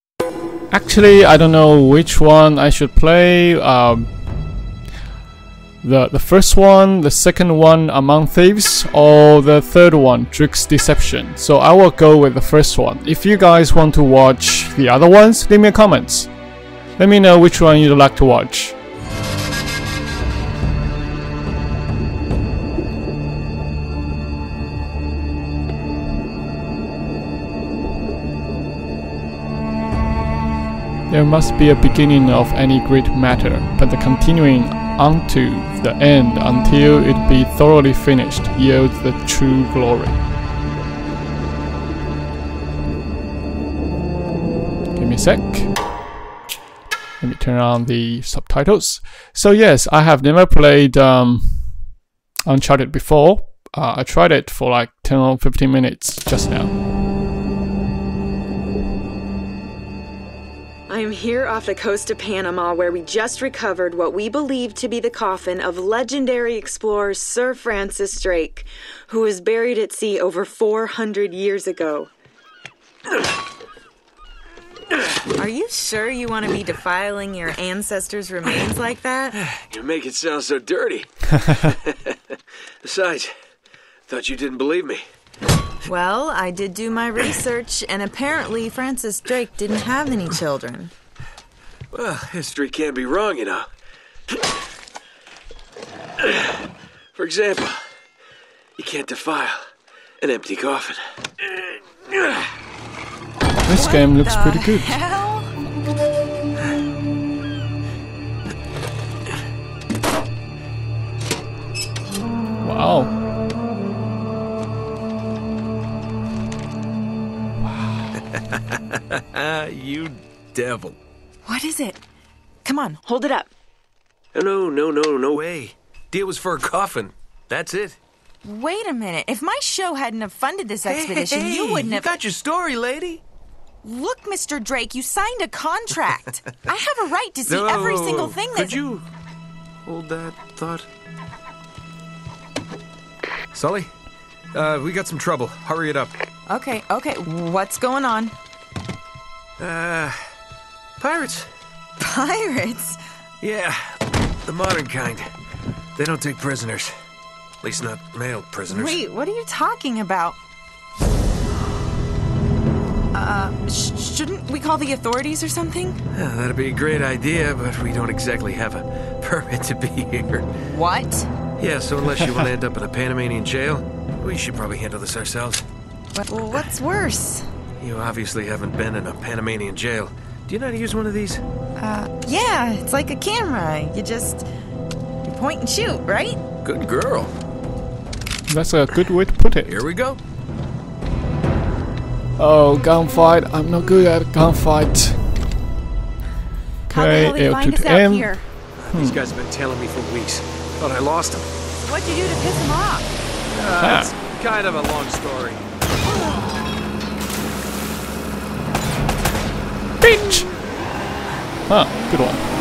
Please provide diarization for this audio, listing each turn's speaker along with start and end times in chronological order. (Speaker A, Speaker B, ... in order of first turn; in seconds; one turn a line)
Speaker A: 0.7-4.1
Speaker A: 5.8-16.3
Speaker A: 17.0-18.8
Speaker A: 31.1-40.2
Speaker A: 44.9-45.8
Speaker A: 47.2-51.8
Speaker A: 52.5-56.8
Speaker B: 60.9-72.1
Speaker B: 75.3-79.4
Speaker C: 79.3-83.3
Speaker C: 84.1-85.0
Speaker B: 85.8-90.9
Speaker C: 91.9-93.7
Speaker C: 96.2-97.8
Speaker C: 98.8-102.5
Speaker A: 103.7-105.0
Speaker B: 103.7-105.5
Speaker A: 112.6-113.1
Speaker A: 117.6-118.1
Speaker C: 118.1-121.0
Speaker B: 121.4-122.0
Speaker B: 122.6-123.5
Speaker C: 124.3-128.0
Speaker B: 128.4-132.1
Speaker C: 130.8-133.2
Speaker B: 133.8-138.8
Speaker C: 137.4-139.1
Speaker C: 139.8-140.9
Speaker C: 143.5-143.9
Speaker C: 144.5-146.2
Speaker B: 146.5-148.3
Speaker C: 149.6-150.2
Speaker C: 151.0-151.5
Speaker B: 152.0-153.0
Speaker C: 153.4-155.3
Speaker C: 155.9-156.9
Speaker C: 157.6-159.0
Speaker B: 158.7-160.4
Speaker B: 163.1-166.0
Speaker C: 166.1-170.5
Speaker B: 170.7-171.3
Speaker C: 171.6-175.7
Speaker B: 176.1-177.5
Speaker C: 177.8-181.4
Speaker B: 181.8-184.4
Speaker B: 185.3-186.4
Speaker C: 186.6-187.3
Speaker A: 188.5-189.8
Speaker C: 189.6-190.2
Speaker A: 192.4-195.2
Speaker A: 196.9-198.3
Speaker B: 196.9-198.4
Speaker C: 198.8-201.5
Speaker A: 198.9-199.3
Speaker B: 201.8-203.2
Speaker C: 203.5-205.7
Speaker A: 203.8-204.1
Speaker A: 210.0-210.5
Speaker A: 211.7-212.4